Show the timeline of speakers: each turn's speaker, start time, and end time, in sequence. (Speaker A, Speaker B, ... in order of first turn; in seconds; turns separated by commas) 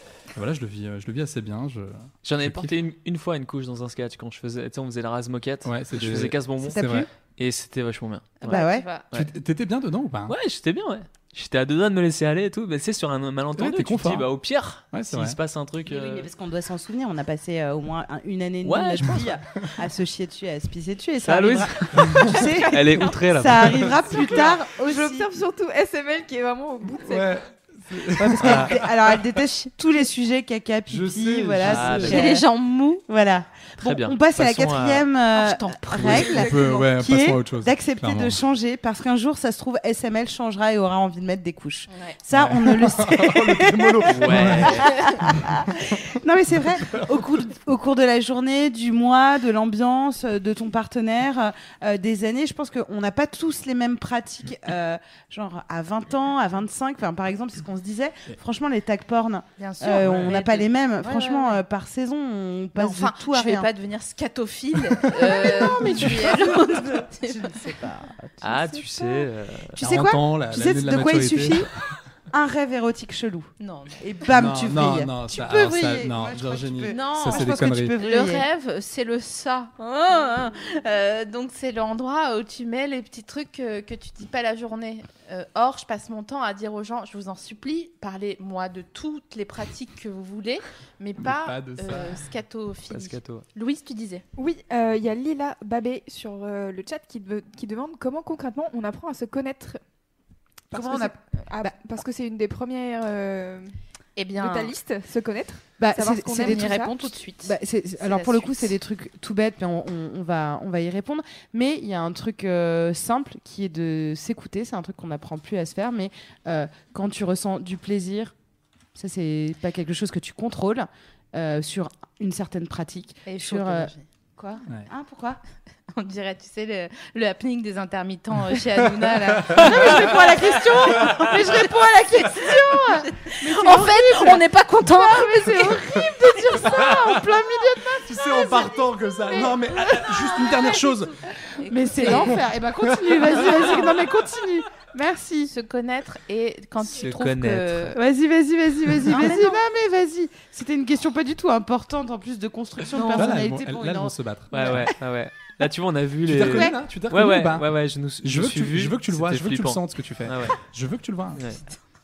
Speaker A: 0.3-2.7, Speaker B: 2.2-9.3, Speaker A: 5.7-7.1, Speaker C: 6.6-7.1, Speaker D: 8.4-9.1, Speaker C: 8.5-8.9, Speaker A: 9.1-10.3, Speaker B: 10.3-16.3, Speaker A: 13.6-14.3, Speaker A: 14.9-15.4, Speaker C: 15.8-25.4, Speaker B: 18.6-19.3, Speaker B: 21.2-24.0, Speaker A: 22.0-22.4, Speaker E: 22.5-23.1, Speaker A: 23.7-24.5, Speaker E: 24.1-27.4, Speaker A: 26.9-29.2, Speaker C: 28.2-32.5, Speaker B: 28.4-28.8, Speaker A: 30.9-32.3, Speaker B: 31.6-32.3, Speaker D: 32.1-33.0, Speaker C: 33.0-63.7, Speaker B: 33.8-35.1, Speaker D: 35.3-36.4, Speaker A: 36.0-38.4, Speaker E: 36.1-36.9, Speaker D: 41.9-42.2, Speaker A: 42.3-46.2, Speaker B: 44.1-44.9, Speaker D: 59.6-61.6, Speaker A: 60.0-60.3, Speaker D: 62.8-67.6, Speaker C: 65.2-71.7, Speaker A: 65.8-66.1, Speaker B: 68.4-69.8, Speaker A: 69.8-71.7, Speaker C: 72.3-78.5, Speaker D: 73.6-74.0, Speaker A: 74.3-78.0, Speaker D: 76.8-94.2, Speaker A: 91.2-92.3, Speaker B: 92.9-93.5, Speaker E: 94.4-99.8, Speaker E: 100.7-103.7, Speaker C: 100.7-101.7, Speaker D: 104.2-104.8, Speaker E: 104.4-107.0, Speaker C: 105.8-118.3, Speaker D: 106.3-108.7, Speaker C: 119.0-125.4, Speaker D: 123.3-124.0, Speaker D: 125.9-140.8, Speaker A: 129.2-130.1, Speaker C: 129.5-138.8, Speaker A: 136.6-137.2, Speaker A: 137.9-141.4, Speaker D: 141.5-142.5, Speaker C: 141.7-145.5, Speaker A: 142.1-142.4, Speaker A: 142.9-144.2, Speaker D: 145.5-148.0, Speaker B: 146.9-148.0, Speaker C: 147.9-154.8, Speaker D: 149.1-149.6, Speaker D: 152.9-153.4, Speaker A: 153.2-154.9, Speaker B: 154.5-160.6, Speaker A: 156.3-157.7, Speaker C: 156.4-156.8, Speaker A: 158.2-161.4, Speaker B: 161.3-161.6